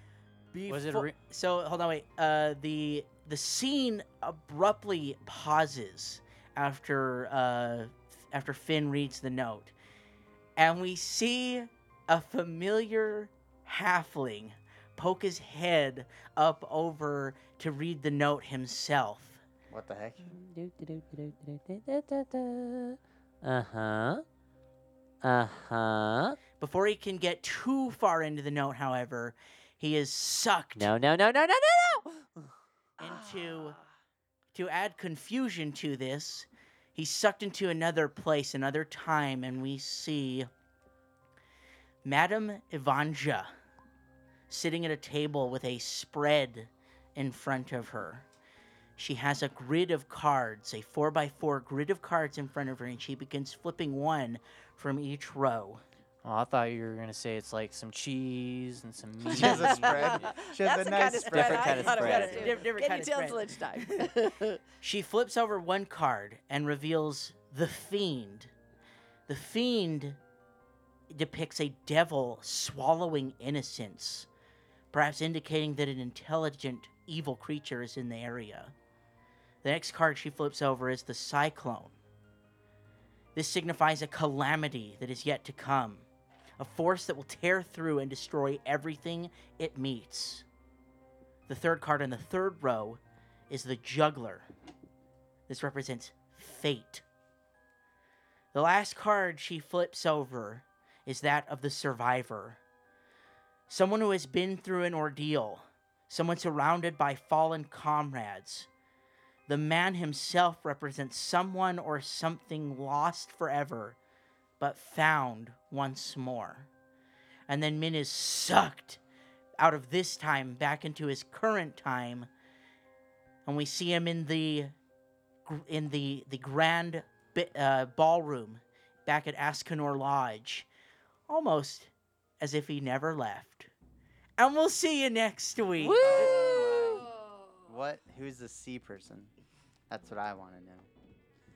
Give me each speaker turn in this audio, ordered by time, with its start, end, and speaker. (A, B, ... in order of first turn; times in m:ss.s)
0:00.5-0:09.7 A
0:00.7-0:01.2 B
0:10.6-0:19.4 A
0:19.7-0:20.3 C
0:20.2-0:24.2 D
0:25.2-0:26.4 D
0:26.6-0:30.9 A
0:30.8-0:32.2 D
0:33.0-0:33.8 A
0:34.5-0:40.5 A
0:42.0-0:43.5 A
0:44.5-0:48.2 A
0:49.0-0:55.8 A
0:56.2-1:00.3 B
0:59.3-1:02.5 C
0:59.3-1:04.6 E
1:01.3-1:02.6 D
1:01.8-1:04.2 A
1:04.8-1:08.5 A
1:09.3-1:10.2 A
1:11.1-1:14.3 A
1:14.9-1:18.7 A
1:19.6-1:21.9 A
1:23.3-1:26.0 A
1:26.6-1:30.4 A
1:31.5-1:34.5 A
1:35.5-1:37.0 A
1:38.5-1:42.6 A
1:43.7-1:48.7 A
1:49.5-1:54.0 A
1:54.6-1:56.7 A
1:57.5-1:59.0 A
1:59.6-2:02.3 A
2:03.4-2:04.7 A
2:05.4-2:10.7 A
2:11.3-2:13.7 A
2:14.4-2:16.1 A
2:15.8-2:16.4 D
2:16.0-2:17.6 E
2:16.0-2:17.1 C
2:17.7-2:19.3 C
2:19.9-2:20.8 C